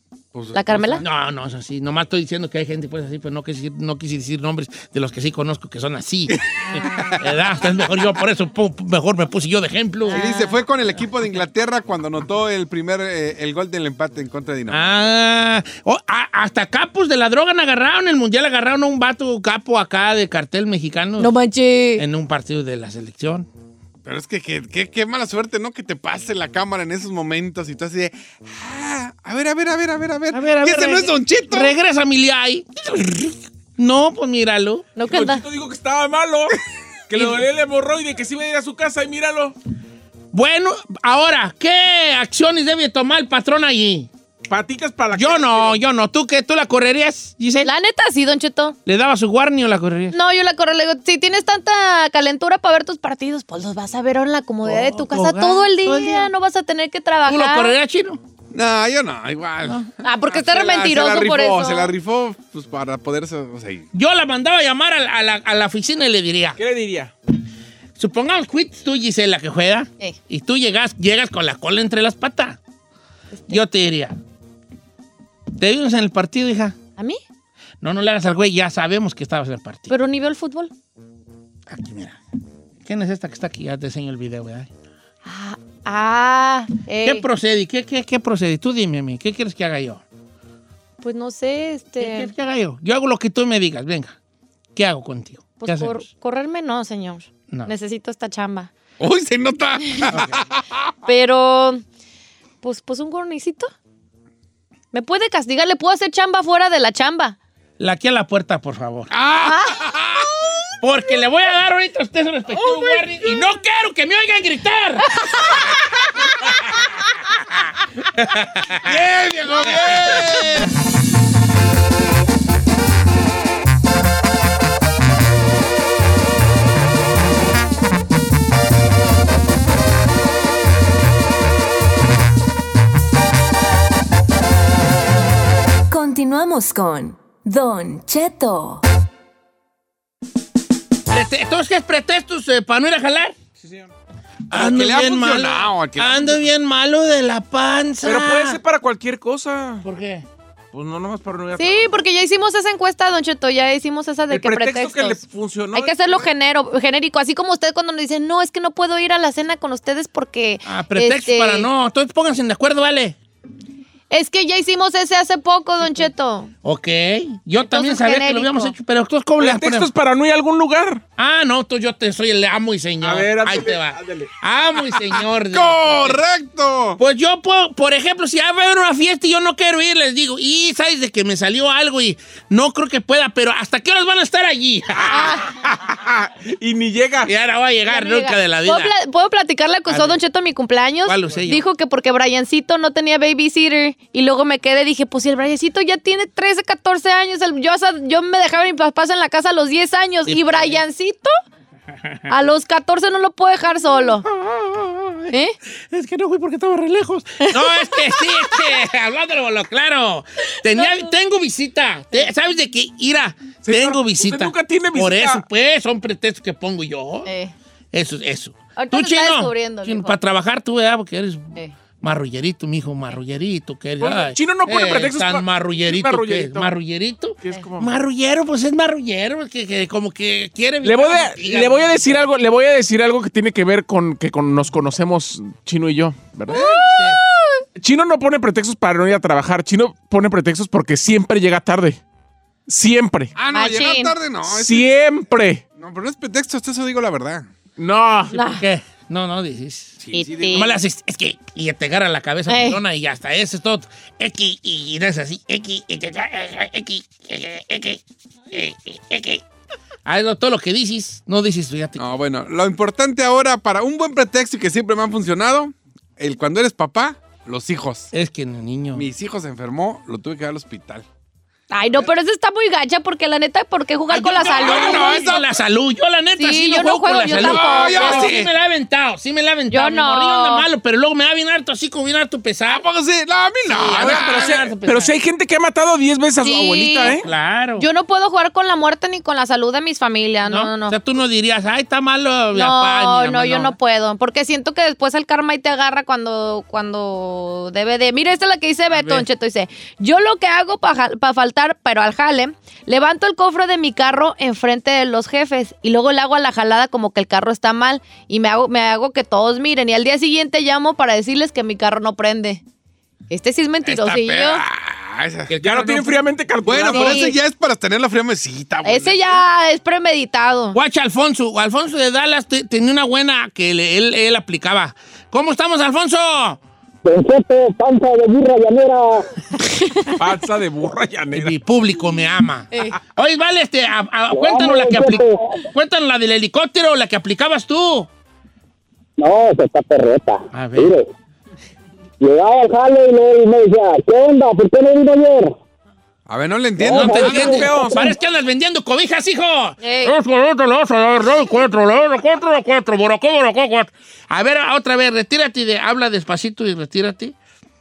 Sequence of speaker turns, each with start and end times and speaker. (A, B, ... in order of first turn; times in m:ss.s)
0:00.3-0:01.0 A
0:00.5-0:01.0 B
0:01.0-0:10.3 C
0:06.3-0:08.0 A
0:10.1-0:10.6 B
0:10.1-0:14.9 A
0:14.7-0:21.3 C
0:21.2-0:22.0 B
0:22.0-0:23.5 C
0:24.0-0:31.7 A
0:30.3-0:34.8 C
0:34.9-0:35.4 B
0:35.0-0:36.6 D
0:37.1-0:39.5 D
0:37.1-0:37.4 C
0:40.3-0:44.1 C
0:44.5-0:45.8 D
0:45.2-0:47.7 C
0:47.6-0:48.8 B
0:48.8-0:50.2 C
0:50.1-0:57.7 B
0:54.6-0:56.3 C
0:57.3-0:58.2 C
0:58.5-1:03.9 A
1:00.0-1:01.9 B
1:03.9-1:06.6 C
1:06.6-1:07.1 D
1:08.0-1:12.6 C
1:13.3-1:13.6 B
1:13.5-1:14.2 C
1:15.6-1:16.8 C
1:17.8-1:19.9 C
1:19.9-1:20.7 B
1:21.7-1:22.2 C
1:22.8-1:24.7 C
1:25.2-1:27.2 B
1:27.0-1:30.0 C
1:31.0-1:32.3 B
1:32.0-1:34.1 C
1:34.7-1:36.0 C
1:35.6-1:38.7 B
1:39.0-1:40.9 A
1:41.0-1:41.8 B
1:42.6-1:43.7 B
1:44.9-1:47.4 B
1:47.8-1:49.1 C
1:49.1-1:50.3 A
1:49.4-1:49.8 B
1:50.8-1:55.1 C
1:52.6-1:53.0 B
1:55.2-1:55.6 B
1:58.1-1:58.8 C
1:58.8-2:00.7 A
2:15.9-2:18.8 E
2:21.1-2:23.4 C
2:24.5-2:26.5 A
2:24.5-2:28.6 C
2:28.0-2:29.8 D
2:29.8-2:30.3 C
2:30.7-2:32.0 D
2:31.6-2:35.2 B
2:34.3-2:36.2 D
2:35.7-2:41.7 B
2:40.6-2:43.2 C
2:44.1-2:46.5 B
2:46.6-2:49.9 C
2:47.7-2:48.7 B
2:49.4-2:51.0 D
2:51.2-2:56.2 C
2:53.0-2:54.3 D
2:55.5-2:57.0 A
2:57.0-3:05.4 C
3:05.1-3:05.5 B
3:06.0-3:07.3 D
3:07.3-3:08.9 C
3:07.8-3:21.3 B
3:09.9-3:10.2 C
3:11.0-3:11.6 C
3:20.3-3:20.8 C
3:22.0-3:22.3 C
3:22.3-3:24.2 B
3:24.3-3:25.3 C
3:25.9-3:37.3 C
3:27.4-3:28.7 B
3:30.7-3:31.1 B
3:33.6-3:35.4 D
3:37.3-3:37.5 B
3:37.9-3:41.5 C
3:38.8-3:40.2 B
3:42.0-3:52.2 C
3:44.0-3:46.7 D
3:47.4-3:47.9 D
3:50.8-3:56.6 D
3:56.5-3:57.6 B
3:56.9-3:57.2 C
3:57.8-4:02.0 D
4:02.7-4:03.3 D
4:03.3-4:04.9 A
4:03.5-4:04.1 B
4:04.5-4:05.6 D
4:05.8-4:07.5 A
4:07.8-4:08.3 D
4:08.3-4:10.0 C
4:08.3-4:08.6 B
4:10.0-4:10.8 A
4:10.1-4:10.8 B
4:10.5-4:18.0 C
4:12.5-4:12.8 B
4:18.5-4:19.4 C
4:20.1-4:22.0 C
4:22.0-4:28.1 A
4:28.1-4:29.1 C
4:28.9-4:31.1 A
4:31.7-4:35.4 B
4:34.1-4:42.8 C
4:34.3-4:35.4 A
4:36.4-4:38.4 B
4:37.2-4:38.5 A
4:39.7-4:40.7 B
4:42.7-4:44.6 A
4:43.7-4:45.1 C
4:44.0-4:47.2 D
4:46.4-4:47.2 B
4:47.2-4:47.8 C
4:47.8-4:51.0 B
4:50.4-4:53.8 C
4:52.5-5:12.6 B
4:58.9-4:59.2 C
5:13.3-5:14.6 B
5:13.8-5:15.5 A
5:15.5-5:16.2 C
5:15.6-5:17.2 D
5:16.6-5:19.3 A
5:16.9-5:17.3 B
5:18.8-5:20.8 B
5:20.7-5:26.6 C
5:27.0-5:29.2 F
5:29.7-5:30.1 B
5:30.2-5:31.6 D
5:31.3-5:38.1 C
5:32.7-5:33.0 B
5:34.3-5:35.6 F
5:39.2-5:41.1 F
5:40.5-5:41.0 C
5:42.2-5:45.6 F
5:46.3-5:47.7 A
5:46.8-5:48.1 F
5:46.8-5:57.3 C
5:47.3-5:47.9 D
5:49.8-5:50.1 B